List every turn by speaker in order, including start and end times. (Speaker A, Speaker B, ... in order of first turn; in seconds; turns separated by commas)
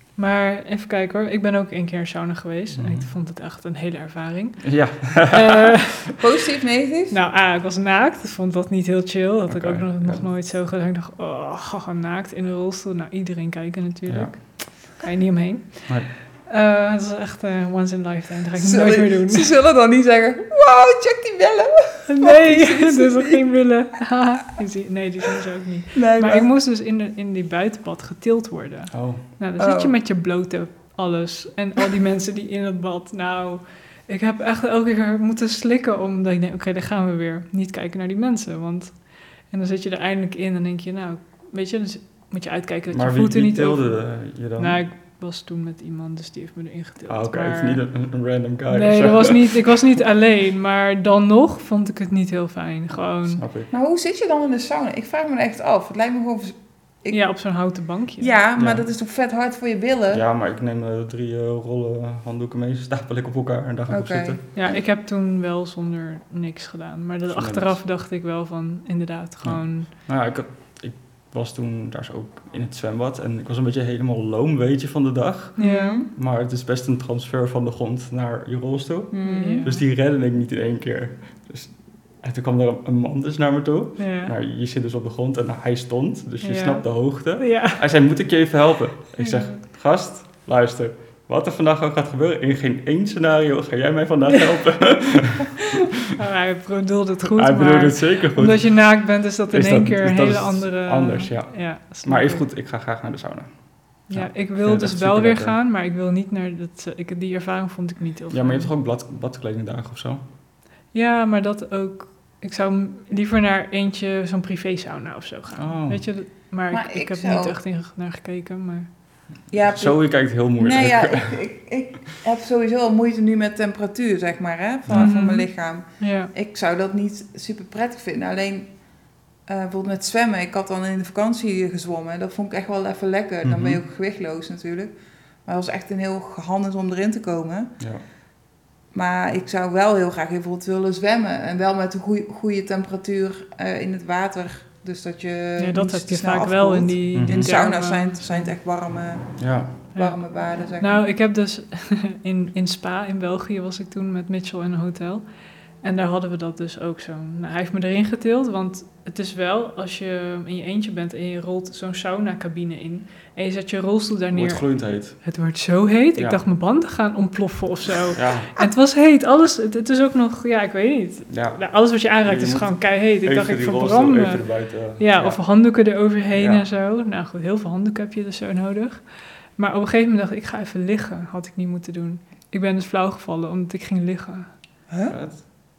Speaker A: 0.1-6.1, Speaker B: 2.7-3.1, Speaker B: 4.6-5.8, Speaker C: 6.2-7.2, Speaker A: 7.1-19.5, Speaker B: 9.5-10.3, Speaker B: 14.1-14.4, Speaker C: 18.6-23.5, Speaker A: 22.1-47.8, Speaker C: 25.9-26.5, Speaker B: 28.9-29.3, Speaker C: 29.6-30.0, Speaker B: 42.9-44.8, Speaker B: 47.1-49.7, Speaker A: 48.7-53.4, Speaker B: 53.4-53.7, Speaker C: 53.7-60.2, Speaker A: 57.1-58.3, Speaker B: 58.6-58.9, Speaker B: 60.1-64.4, Speaker C: 63.9-64.8, Speaker A: 64.5-69.9, Speaker B: 67.3-67.8, Speaker B: 69.4-95.8, Speaker A: 75.6-76.0, Speaker C: 75.6-76.1, Speaker C: 79.1-79.7, Speaker A: 79.2-79.8, Speaker A: 84.0-84.3, Speaker A: 86.4-87.8, Speaker A: 89.2-89.6, Speaker A: 96.1-102.4, Speaker B: 97.3-105.6, Speaker A: 104.1-108.7, Speaker B: 108.3-110.2, Speaker A: 110.9-118.9, Speaker B: 115.5-116.1, Speaker C: 116.7-117.6, Speaker C: 119.5-137.7, Speaker B: 119.6-121.5, Speaker B: 124.9-125.1, Speaker A: 124.9-126.3, Speaker B: 133.4-133.8, Speaker B: 137.8-138.1, Speaker C: 138.9-151.1, Speaker A: 145.6-148.5, Speaker B: 147.1-147.5, Speaker B: 149.4-149.8, Speaker A: 149.9-184.6, Speaker B: 164.3-165.3, Speaker B: 166.1-166.4, Speaker B: 168.1-168.5, Speaker B: 171.3-176.6, Speaker C: 184.9-185.1, Speaker B: 185.1-185.4